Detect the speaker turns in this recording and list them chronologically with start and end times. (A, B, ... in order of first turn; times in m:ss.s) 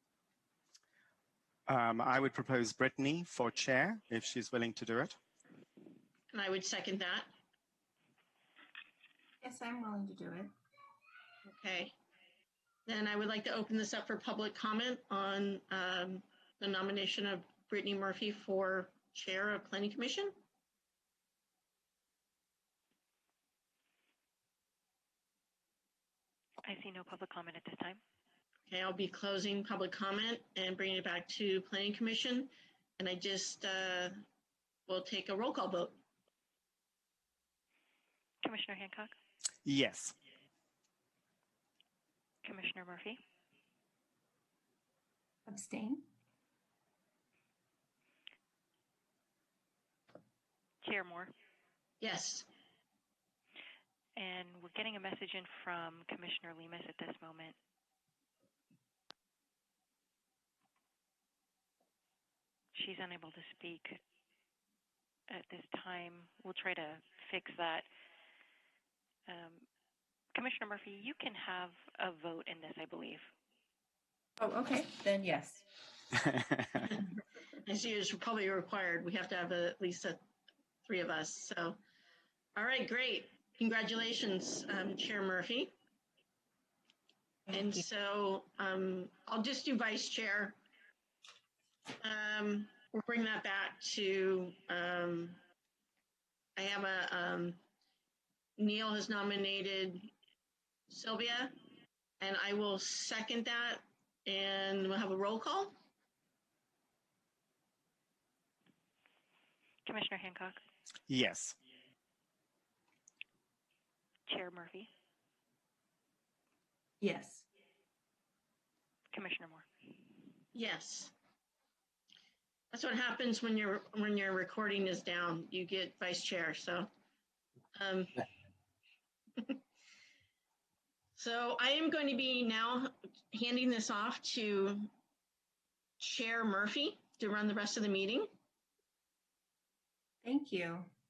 0:01.7-0:05.2 A
0:06.3-0:07.3 B
0:09.4-0:10.5 C
0:11.4-0:11.9 B
0:12.8-0:20.3 B
0:26.6-0:28.0 D
0:28.7-0:34.2 B
0:34.9-0:36.0 B
0:38.4-0:39.1 D
0:39.6-0:40.1 A
0:42.4-0:43.2 D
0:45.5-0:46.1 C
0:50.8-0:51.3 D
0:52.0-0:52.5 B
0:54.2-0:57.5 D
1:02.7-1:04.0 D
1:05.3-1:07.8 D
1:09.3-1:09.6 D
1:10.3-1:13.2 D
1:14.4-1:15.6 C
1:16.3-1:16.8 A
1:17.6-1:20.2 B
1:20.8-1:21.8 B
1:22.5-1:25.7 B
1:27.5-1:27.8 C
1:27.5-1:30.6 B
1:32.0-1:35.4 B
1:36.6-1:37.6 B
1:38.6-1:40.1 B
1:40.9-1:41.5 B
1:42.2-1:45.7 B
1:49.8-1:50.6 D
1:51.1-1:51.6 A
1:54.3-1:54.9 D
1:57.0-1:57.4 C
1:59.1-1:59.6 D
2:00.5-2:01.1 B
2:02.7-2:06.9 B
2:07.7-2:08.2 B
2:11.2-2:14.9 B
2:16.0-2:18.3 B
2:20.2-2:20.9 C